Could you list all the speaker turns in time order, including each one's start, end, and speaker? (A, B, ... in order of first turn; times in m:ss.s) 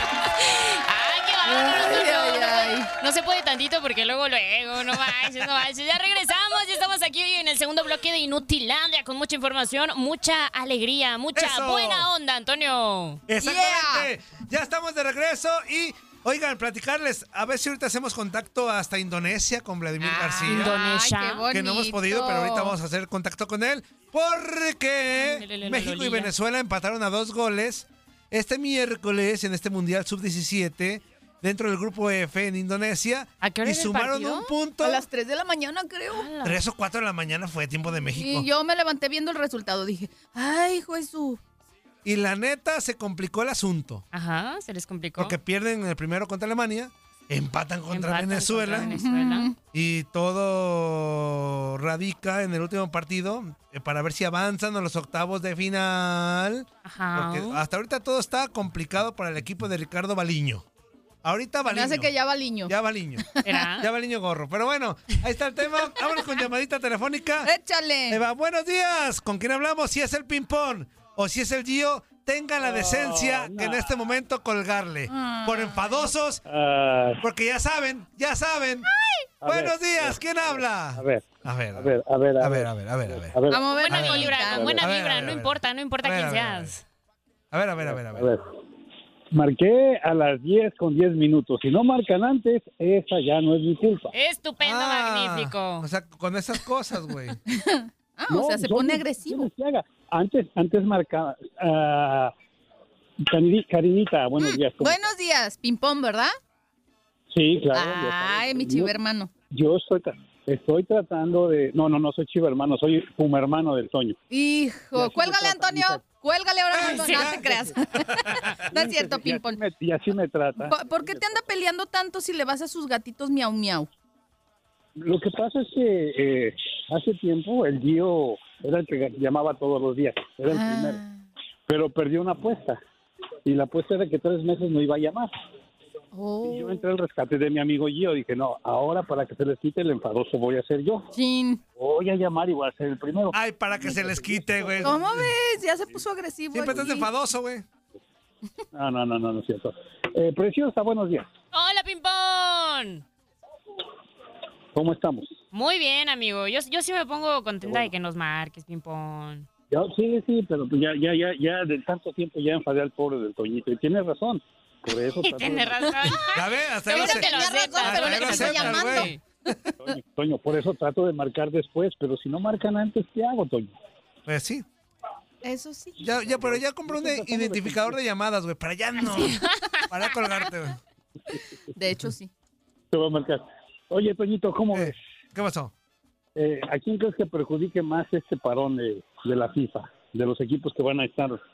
0:00.5-0:13.2 A
0:01.5-0:02.9 B
0:11.3-0:12.1 C
0:13.3-0:20.8 C
0:13.4-0:14.1 B
0:20.1-0:22.8 B
0:20.4-0:21.5 A
0:21.5-0:35.0 C
0:25.1-0:26.3 A
0:33.4-0:34.5 A
0:34.8-0:36.3 B
0:36.1-0:36.6 A
0:36.4-0:38.5 C
0:38.2-0:41.4 B
0:42.0-0:44.0 C
0:44.1-0:45.4 A
0:45.2-0:49.0 C
0:47.9-0:49.5 A
0:48.8-0:49.6 B
0:49.7-1:00.6 C
0:56.8-0:57.6 A
1:01.2-1:02.1 C
1:01.6-1:02.7 B
1:02.7-1:03.2 C
1:03.4-1:03.9 A
1:03.8-1:07.5 C
1:07.4-1:08.2 B
1:08.1-1:16.4 C
1:12.6-1:13.9 D
1:15.1-1:16.1 B
1:16.5-1:17.2 D
1:17.2-1:18.9 C
1:19.4-1:24.8 D
1:19.4-1:26.8 C
1:23.5-1:24.7 B
1:23.8-1:26.8 A
1:27.5-1:28.3 C
1:27.8-1:28.4 D
1:29.3-1:34.1 D
1:34.1-1:35.9 A
1:34.6-1:37.4 C
1:37.5-1:39.5 B
1:38.3-1:42.3 D
1:43.3-1:45.1 D
1:44.4-1:46.3 B
1:47.3-1:48.9 D
1:47.7-1:49.3 B
1:49.5-1:54.2 D
1:54.3-1:59.6 B
1:54.9-1:56.1 D
1:56.7-1:58.6 C
1:56.9-1:57.3 A
1:58.7-2:01.5 D
2:00.6-2:03.9 B
2:05.0-2:11.0 D
2:10.5-2:11.2 B
2:11.7-2:12.8 D
2:13.5-2:15.3 D
2:16.1-2:16.8 B
2:16.4-2:21.1 D
2:21.1-2:21.6 B
2:21.8-2:25.1 D
2:23.3-2:25.3 C
2:24.9-2:27.1 B
2:26.5-2:27.6 C
2:28.7-2:31.3 D
2:31.5-2:33.0 A
2:34.7-2:35.3 D
2:35.5-2:39.5 A
2:37.6-2:37.9 D
2:39.7-2:45.9 D
2:45.1-2:49.2 A
2:46.3-2:49.1 C
2:46.9-2:49.1 B
2:49.8-2:53.8 D
2:54.3-2:54.6 C
2:55.4-2:56.0 B
2:56.0-3:00.8 C
2:56.1-2:58.0 D
3:01.8-3:02.3 B
3:02.9-3:05.0 D
3:04.7-3:05.7 C
3:06.4-3:11.4 D